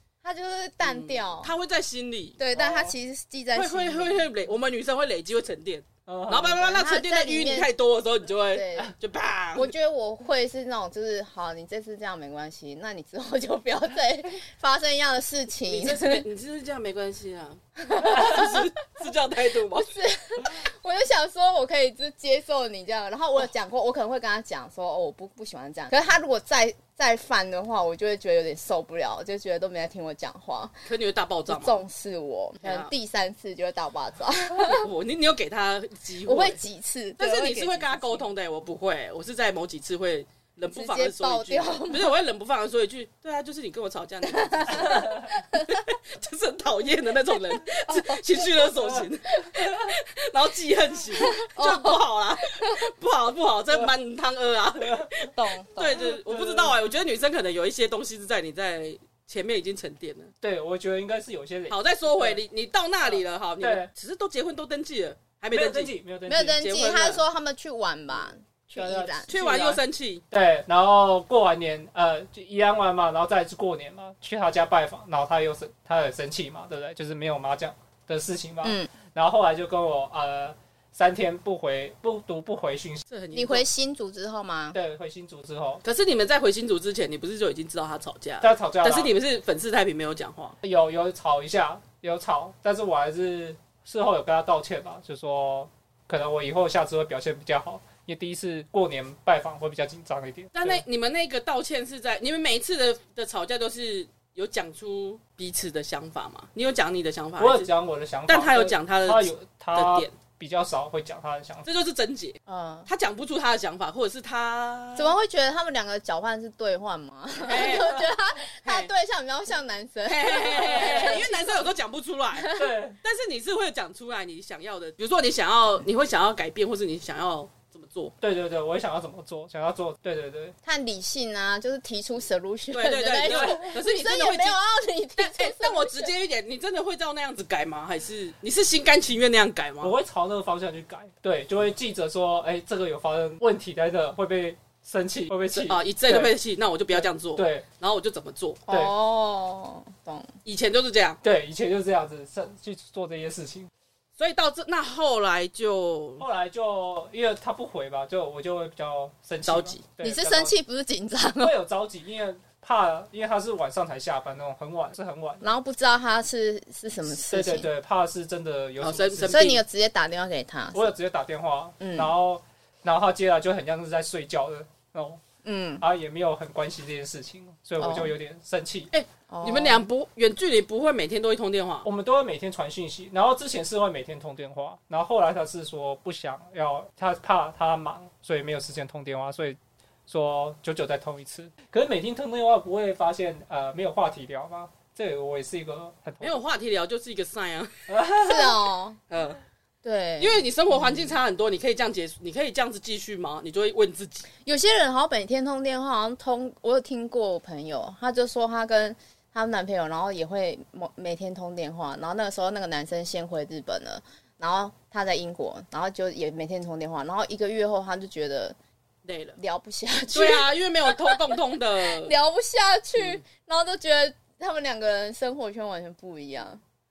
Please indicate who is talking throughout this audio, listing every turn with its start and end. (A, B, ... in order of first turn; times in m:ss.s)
0:00.2-0:01.5 A
0:00.8-0:02.8 B
0:02.4-0:04.3 A
0:03.5-0:09.7 B
0:06.1-0:06.6 C
0:06.6-0:07.7 A
0:08.5-0:09.0 A
0:09.6-0:16.2 A
0:15.7-0:19.9 B
0:17.8-0:18.6 A
0:19.8-0:30.7 A
0:30.9-0:31.8 B
0:31.5-0:34.9 A
0:32.6-0:32.9 B
0:34.6-0:36.6 B
0:36.3-0:38.2 A
0:37.2-1:00.3 B
0:40.7-0:42.1 A
0:44.3-0:45.8 A
0:44.9-0:45.2 C
0:47.8-0:48.6 A
0:51.2-0:52.8 A
0:54.8-0:55.1 C
0:55.3-0:56.1 A
0:56.0-0:56.8 C
1:00.4-1:02.4 C
1:01.7-1:05.9 B
1:03.0-1:03.9 C
1:05.5-1:06.6 C
1:06.3-1:09.3 A
1:06.5-1:07.2 B
1:08.7-1:23.0 C
1:09.3-1:10.2 B
1:18.6-1:18.9 A
1:23.1-1:23.7 B
1:23.3-1:24.8 A
1:24.7-1:25.8 C
1:25.8-1:30.6 B
1:28.4-1:29.1 C
1:30.6-1:40.8 C
1:40.6-1:47.7 B
1:47.4-1:51.7 C
1:48.3-1:50.1 B
1:51.7-1:55.2 B
1:52.5-1:52.9 A
1:55.0-2:01.6 A
1:57.4-1:58.1 B
1:58.6-1:58.9 B
2:00.1-2:08.1 B
2:02.4-2:02.7 A
2:02.5-2:03.0 C
2:08.2-2:10.6 C
2:10.6-2:16.1 A
2:12.7-2:14.6 B
2:13.3-2:13.6 C
2:15.2-2:19.9 B
2:19.8-2:26.4 C
2:25.5-2:28.6 B
2:26.9-2:27.7 C
2:28.7-2:30.3 A
2:30.4-2:31.2 B
2:31.2-2:33.7 C
2:34.2-2:36.2 B
2:36.2-2:40.5 C
2:39.4-2:39.8 B
2:40.0-2:41.5 A
2:41.4-2:45.4 C
2:45.4-2:47.7 A
2:47.1-2:49.6 C
2:48.8-2:49.6 B
2:49.3-2:51.0 A
2:50.7-2:55.2 C
2:51.8-2:52.1 A
2:55.4-2:55.8 A
2:55.8-2:58.9 C
2:57.8-2:58.1 A
2:58.9-3:01.9 B
2:59.3-2:59.9 A
3:01.8-3:16.4 C
3:16.2-3:17.9 B
3:17.9-3:18.6 C
3:18.2-3:19.0 A
3:19.1-3:19.4 B
3:19.8-3:21.2 A
3:20.2-3:24.3 B
3:24.4-3:38.6 A
3:39.0-3:39.4 B
3:39.4-3:46.6 A
3:40.1-3:42.1 B